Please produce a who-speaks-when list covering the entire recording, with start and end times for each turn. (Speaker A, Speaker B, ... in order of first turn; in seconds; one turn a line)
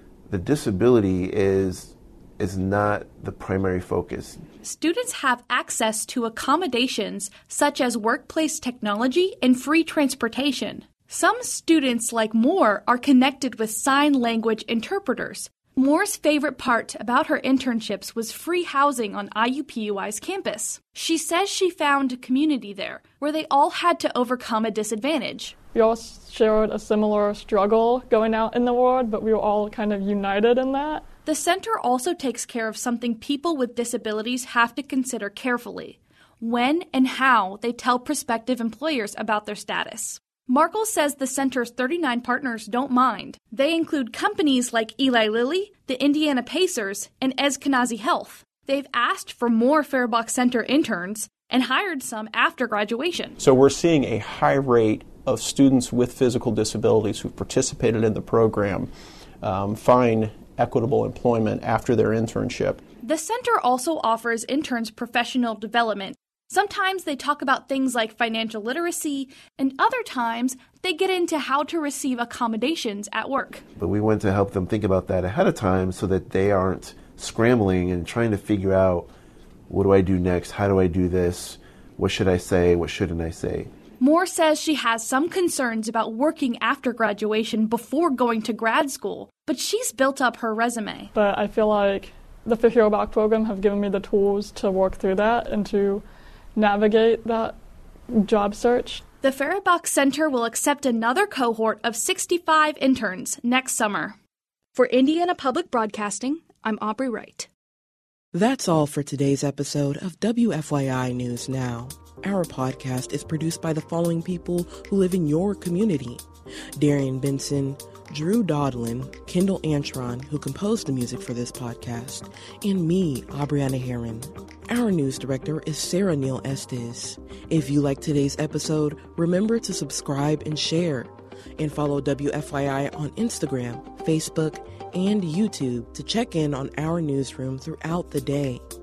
Speaker A: 0.3-4.4
Speaker B: 4.6-25.5
Speaker C: 25.7-31.0
Speaker B: 31.2-53.3
Speaker D: 53.4-58.9
Speaker D: 59.4-62.8
Speaker B: 63.0-73.6
Speaker A: 73.8-79.1
Speaker A: 79.7-83.7
Speaker B: 84.0-91.1
Speaker C: 91.1-96.0
Speaker C: 96.5-97.5
Speaker C: 98.1-99.0
Speaker B: 99.2-104.2
Speaker B: 104.7-107.5
Speaker E: 108.3-116.2
Speaker E: 116.8-138.6